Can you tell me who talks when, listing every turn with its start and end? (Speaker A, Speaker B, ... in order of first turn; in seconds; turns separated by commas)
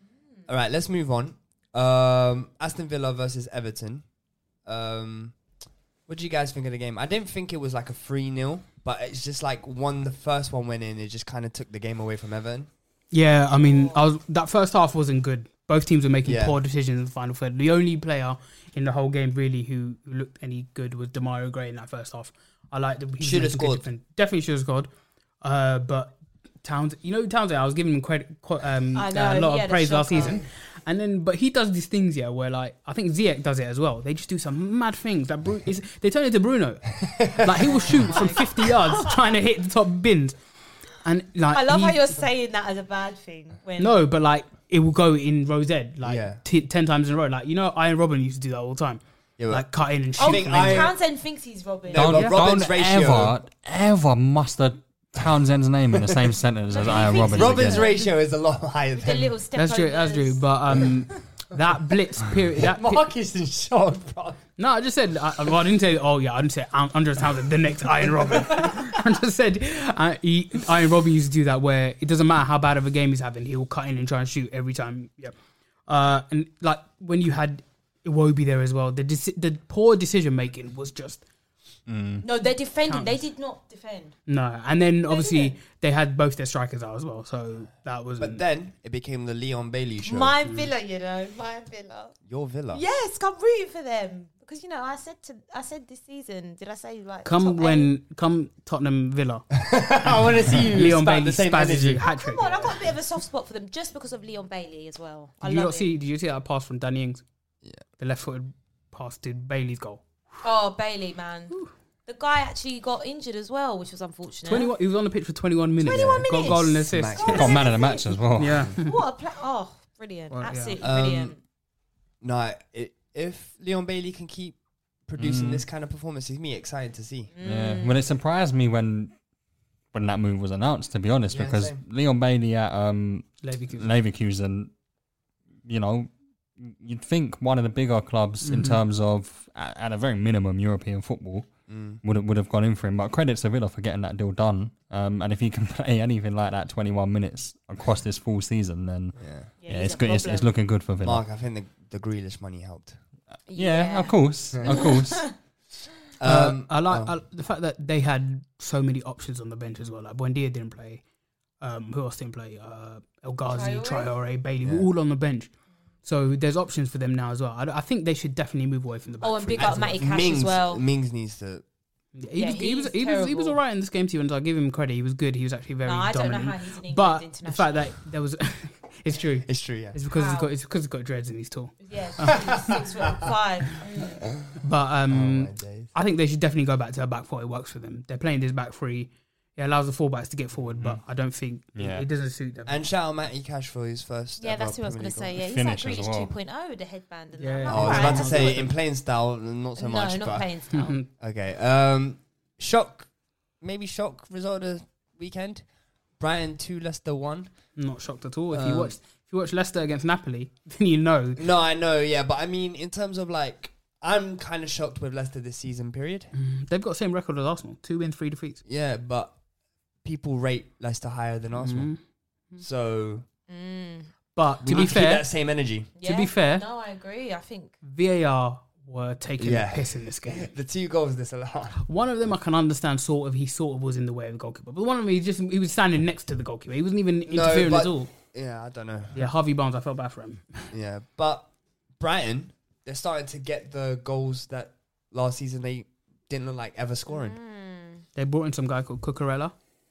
Speaker A: 0.5-4.0, Speaker A: 4.6-5.4, Speaker A: 6.1-12.7, Speaker B: 13.1-24.9, Speaker C: 13.5-14.0, Speaker A: 16.2-16.6, Speaker A: 23.2-23.9, Speaker B: 25.4-40.4, Speaker C: 28.9-30.4, Speaker A: 37.0-37.7, Speaker C: 37.6-39.3, Speaker B: 41.0-42.0, Speaker C: 41.5-44.0, Speaker B: 43.8-50.9, Speaker A: 46.0-46.4, Speaker A: 49.4-51.0, Speaker C: 50.2-52.2, Speaker A: 51.9-53.3, Speaker D: 51.9-57.9, Speaker A: 55.9-56.2, Speaker C: 56.7-58.1, Speaker A: 57.3-59.3, Speaker C: 58.9-60.4, Speaker B: 59.5-63.0, Speaker A: 62.5-64.4, Speaker B: 64.6-75.3, Speaker A: 68.0-68.8, Speaker B: 75.9-81.2, Speaker D: 81.9-82.2, Speaker C: 82.2-84.2, Speaker B: 82.9-83.2, Speaker B: 84.3-88.4, Speaker C: 85.1-85.5, Speaker A: 88.2-90.3, Speaker C: 90.0-92.2, Speaker A: 92.2-92.8, Speaker C: 92.7-97.9, Speaker B: 97.2-99.5, Speaker A: 99.5-102.0, Speaker B: 100.5-102.8, Speaker C: 102.0-105.9, Speaker B: 105.4-107.2, Speaker B: 108.0-110.0, Speaker C: 110.4-114.7, Speaker B: 114.5-117.5, Speaker C: 115.8-118.2, Speaker A: 115.9-117.6, Speaker D: 117.3-118.7, Speaker B: 118.3-119.0, Speaker C: 118.8-121.4, Speaker B: 120.3-120.8, Speaker A: 120.8-121.3, Speaker A: 122.2-127.3, Speaker D: 125.2-125.6, Speaker C: 127.3-127.9, Speaker D: 127.4-129.1, Speaker D: 129.9-134.7, Speaker A: 131.3-131.8, Speaker B: 133.4-133.9, Speaker D: 135.7-141.5, Speaker B: 138.4-138.8, Speaker A: 141.7-142.0, Speaker D: 142.0-151.2, Speaker A: 149.2-149.5, Speaker C: 149.6-150.5, Speaker A: 151.0-153.0, Speaker C: 153.5-155.3, Speaker D: 153.5-155.3, Speaker A: 154.5-154.8, Speaker A: 156.2-157.2, Speaker B: 156.2-161.0, Speaker B: 161.6-165.5, Speaker C: 163.5-164.1, Speaker B: 166.0-170.0, Speaker C: 169.2-170.8, Speaker A: 169.6-171.6, Speaker B: 172.2-182.6, Speaker C: 172.3-173.6, Speaker C: 175.8-177.9, Speaker A: 179.4-180.0, Speaker C: 180.1-180.5, Speaker C: 181.8-184.2, Speaker A: 182.7-183.2, Speaker B: 184.6-192.8, Speaker A: 185.1-185.9, Speaker D: 191.7-192.0, Speaker A: 192.7-195.4, Speaker C: 194.4-198.7, Speaker D: 195.4-196.3, Speaker B: 197.4-198.7, Speaker A: 197.7-200.5, Speaker C: 199.8-201.0, Speaker B: 200.7-201.1, Speaker A: 201.2-203.1, Speaker A: 203.6-205.6, Speaker A: 206.2-207.5, Speaker B: 207.8-211.4, Speaker A: 208.5-209.0, Speaker A: 211.4-216.3, Speaker B: 216.3-218.6, Speaker A: 218.7-219.3, Speaker A: 220.0-221.9, Speaker B: 221.5-222.0, Speaker A: 222.6-223.2, Speaker C: 223.5-224.1, Speaker B: 224.3-225.3, Speaker A: 224.6-225.9, Speaker C: 225.9-227.8, Speaker B: 226.0-226.6, Speaker B: 227.8-230.5, Speaker A: 229.4-231.8, Speaker B: 231.8-238.1, Speaker A: 237.2-239.2, Speaker B: 239.1-240.7, Speaker A: 240.7-247.4, Speaker C: 247.1-248.0, Speaker B: 248.1-249.5